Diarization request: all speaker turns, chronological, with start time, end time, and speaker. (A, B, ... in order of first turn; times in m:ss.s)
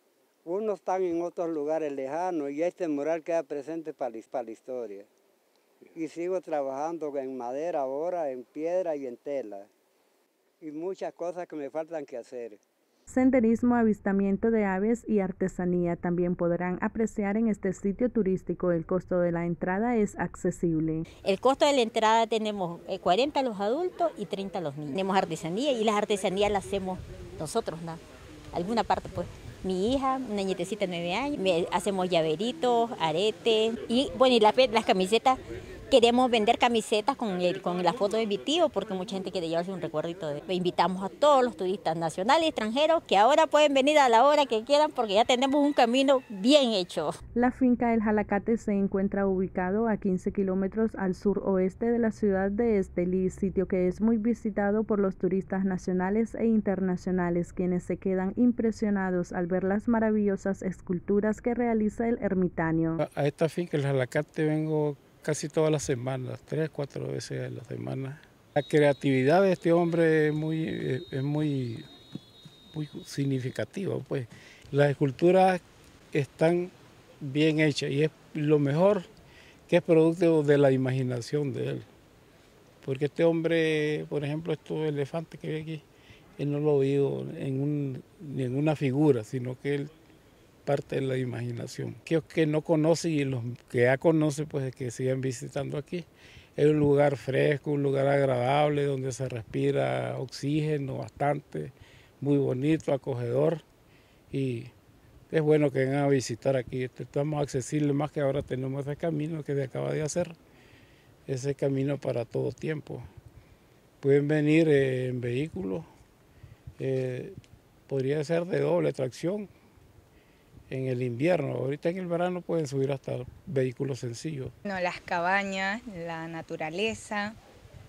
0:00.4-0:05.1 A
0:05.9-0:09.7 A
0:10.6-0:12.6 A
0:13.1-0:21.0 B
0:21.2-0:28.0 C
0:28.5-0:35.4 C
0:35.9-0:47.1 C
0:47.3-1:03.0 B
1:03.0-1:11.9 D
1:12.7-1:19.1 D
1:19.7-1:21.8 D
1:22.8-1:25.8 D
1:26.4-1:29.9 D
1:30.6-1:43.6 D
1:44.3-1:44.7 D
1:45.3-1:50.4 D
1:51.3-1:53.0 D
1:54.0-1:55.9 D
1:56.8-1:57.4 D
1:57.9-1:59.5 D
2:00.7-2:04.5 D
2:04.6-2:07.4 E